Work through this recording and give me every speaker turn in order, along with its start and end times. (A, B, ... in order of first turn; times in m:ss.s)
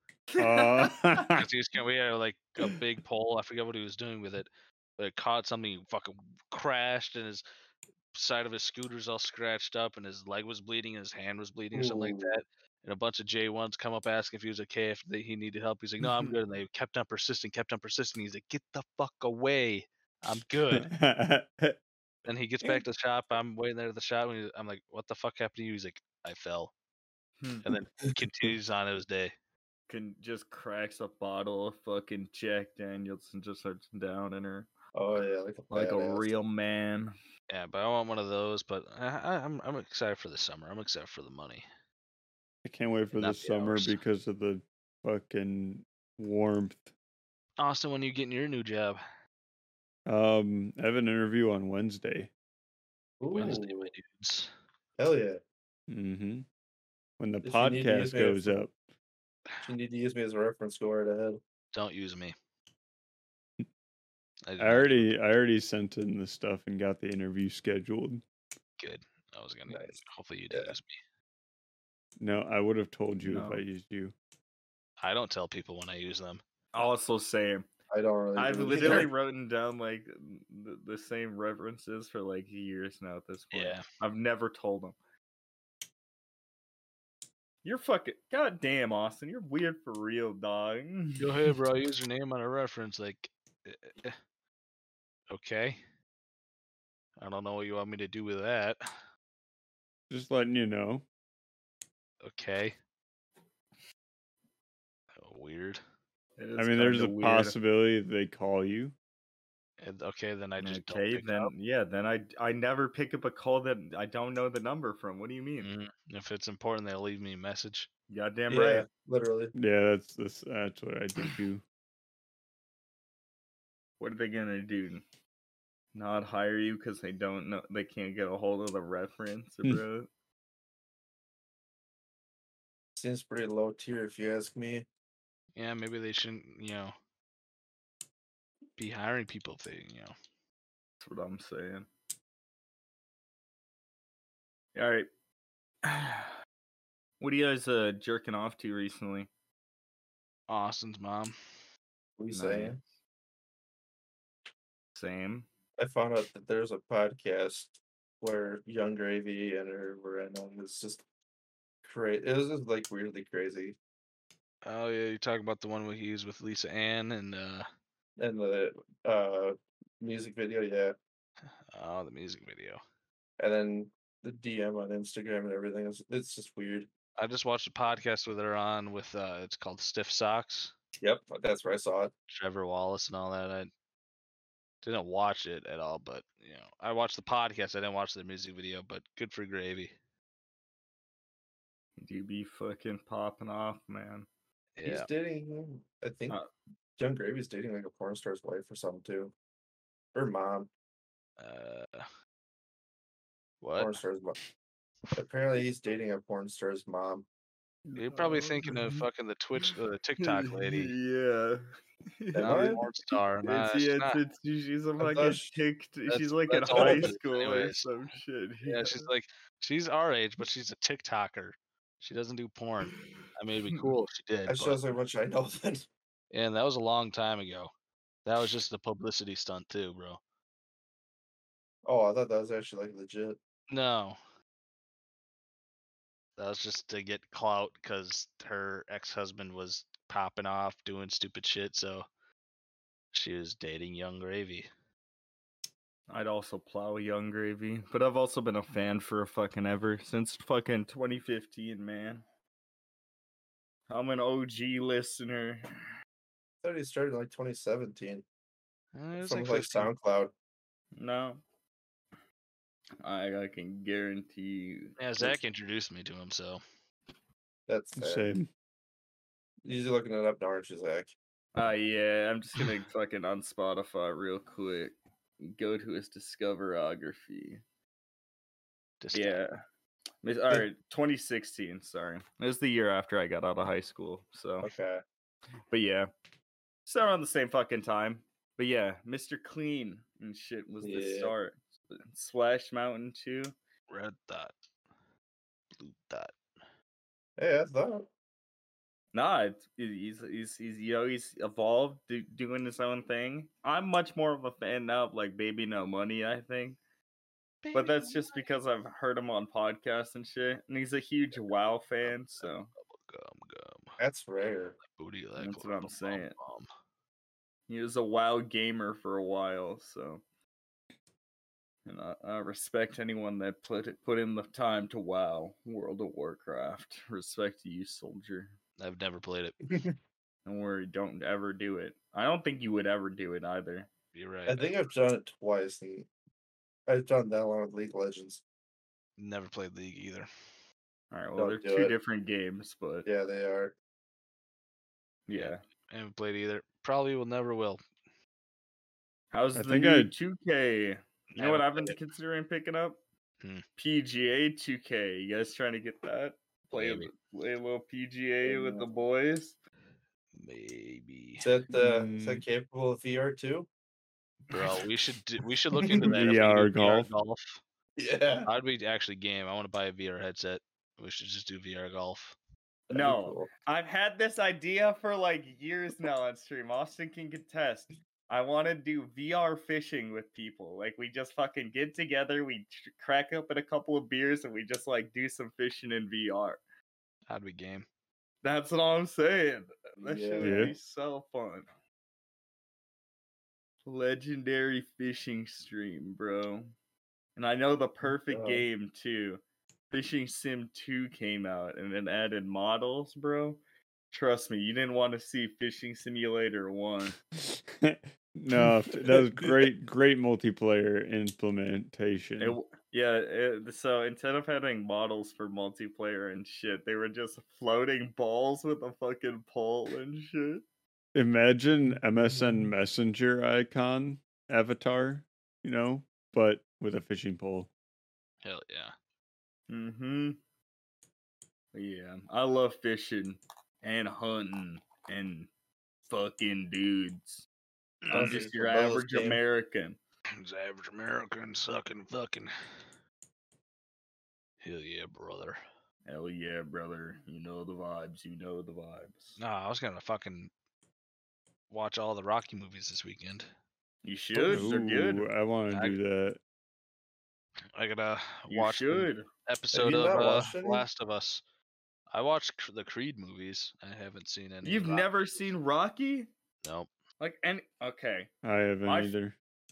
0:00.3-0:01.2 A
0:00.4-0:01.4 B
0:01.4-0:07.4 C
0:08.1-0:20.9 C
0:11.7-0:12.4 D
0:20.7-0:21.8 B
0:22.2-0:26.7 C
0:27.6-0:29.3 C
0:29.9-0:34.7 A
0:34.9-0:36.3 D
0:35.7-0:37.1 A
0:37.5-0:41.6 C
0:42.6-0:46.9 B
0:43.1-0:44.0 C
0:47.6-0:49.0 C
0:50.0-0:52.3 B
0:53.2-0:53.9 D
0:53.3-0:54.5 C
0:55.0-0:55.4 D
0:55.9-0:56.4 B
0:57.2-0:58.7 B
0:57.4-0:58.6 D
0:59.6-1:01.4 D
1:01.7-1:02.3 C
1:04.5-1:05.1 C
1:04.6-1:08.2 B
1:08.8-1:11.0 C
1:09.7-1:10.0 D
1:10.5-1:10.8 D
1:12.2-1:14.1 B
1:13.2-1:13.6 A
1:15.0-1:16.4 C
1:16.7-1:17.7 A
1:17.9-1:19.1 D
1:18.4-1:25.0 A
1:23.5-1:23.8 C
1:27.6-1:31.5 A
1:31.2-1:34.2 C
1:35.3-1:35.8 C
1:37.2-1:38.8 C
1:40.1-1:41.0 B
1:42.2-1:42.8 C
1:45.2-1:45.8 C
1:46.4-1:47.5 A
1:46.6-1:48.9 B
1:49.8-1:51.5 C
1:50.6-1:55.7 A
1:55.6-1:57.9 C
1:58.1-1:58.9 A
1:58.5-1:59.5 D
1:59.5-2:01.6 B
2:04.0-2:05.0 A
2:05.9-2:10.1 A
2:13.0-2:14.8 D
2:15.6-2:16.9 C
2:18.8-2:20.1 C
2:21.0-2:21.9 A
2:24.7-2:25.1 A
2:25.8-2:26.3 A
2:27.2-2:29.3 A
2:30.5-2:31.3 C
2:32.2-2:32.8 D
2:32.3-2:32.8 A
2:34.9-2:35.4 A
2:35.8-2:41.0 D
2:41.8-2:43.8 D
2:44.6-2:47.7 C
2:48.2-2:50.9 D
2:51.7-2:52.8 C
2:53.4-2:56.9 D
2:57.2-3:00.7 C
3:01.0-3:02.1 D
3:02.3-3:03.7 C
3:04.8-3:09.9 C
3:12.0-3:14.3 A
3:14.8-3:15.1 C
3:14.8-3:16.4 D
3:17.0-3:19.3 D
3:20.1-3:20.7 D
3:21.4-3:22.1 C
3:23.6-3:24.0 C
3:23.8-3:24.4 D
3:25.1-3:27.2 D
3:27.9-3:29.0 A
3:28.0-3:30.9 C
3:29.6-3:31.7 A
3:32.2-3:32.8 A
3:32.3-3:32.8 D
3:32.4-3:34.2 C
3:33.4-3:39.1 A
3:35.0-3:35.5 D
3:36.1-3:37.9 C
3:36.7-3:37.1 D
3:38.6-3:44.8 C
3:44.5-3:45.8 D
3:46.3-3:47.7 C
3:48.2-3:50.2 C
3:51.8-3:53.4 D
3:53.7-3:54.2 C
3:56.4-4:02.1 C
4:03.1-4:04.7 C
4:06.1-4:12.2 A
4:13.9-4:15.6 A
4:16.6-4:18.2 D
4:18.9-4:19.9 C
4:19.2-4:20.3 D
4:21.0-4:21.4 A
4:23.0-4:25.0 A
4:25.0-4:26.6 C
4:27.7-4:28.3 D
4:28.0-4:28.5 B
4:29.6-4:31.1 D
4:31.5-4:37.6 A
4:39.0-4:39.4 C
4:39.1-4:39.5 A
4:40.2-4:44.7 A
4:44.6-4:45.0 D
4:45.7-4:46.1 A
4:46.8-4:53.5 A
4:50.8-4:51.3 D
4:53.9-4:54.5 C
4:55.8-4:56.3 C
4:57.4-4:58.1 D
4:59.1-5:06.8 A
5:07.6-5:08.4 C
5:07.7-5:12.7 A
5:12.0-5:14.0 C
5:14.0-5:14.8 D
5:14.8-5:16.7 C
5:15.4-5:16.3 A
5:17.7-5:20.2 A
5:21.8-5:28.5 A
5:28.8-5:29.6 C
5:30.4-5:33.9 A
5:34.1-5:34.7 C
5:34.5-5:36.1 D
5:36.9-5:38.4 D
5:39.2-5:40.3 C
5:41.1-5:43.1 A
5:41.4-5:41.9 D
5:43.0-5:43.7 D
5:45.3-5:45.6 A
5:45.3-5:47.8 C
5:49.3-5:53.0 A
5:49.5-5:50.1 B
5:51.3-5:52.0 C
5:53.8-5:59.6 A
5:56.7-5:57.1 C
5:58.4-5:58.9 D
6:00.4-6:01.5 C
6:01.4-6:03.7 D
6:01.8-6:02.4 B
6:04.5-6:07.6 C
6:05.8-6:06.1 D
6:06.0-6:07.1 B
6:08.0-6:08.5 D
6:08.4-6:12.4 C
6:12.9-6:13.5 D
6:12.9-6:26.6 A
6:27.3-6:27.8 C
6:28.4-6:31.7 A
6:30.0-6:30.7 D
6:30.4-6:30.7 B
6:33.8-6:36.7 A
6:37.4-6:43.6 A
6:38.3-6:38.6 D
6:44.1-6:47.2 A
6:47.3-6:52.6 B
6:48.5-6:49.6 D
6:52.4-7:00.6 A
7:01.1-7:07.7 B
7:01.9-7:02.7 D
7:08.4-7:08.9 C
7:09.7-7:10.4 A
7:11.7-7:15.5 A
7:16.1-7:17.4 A
7:18.0-7:18.4 C
7:18.1-7:20.0 A
7:18.1-7:19.4 D
7:20.4-7:22.5 C
7:24.6-7:25.6 C
7:26.0-7:29.4 A
7:29.4-7:30.5 C
7:31.7-7:33.5 C
7:34.0-7:35.2 A
7:34.4-7:36.4 B
7:35.7-7:36.0 C
7:37.7-7:41.4 C
7:38.5-7:39.2 A
7:39.7-7:40.8 D
7:42.1-7:45.1 C
7:44.6-7:46.3 A
7:46.6-7:46.9 C
7:47.2-7:48.3 A
7:48.4-7:49.3 B
7:48.8-7:49.1 A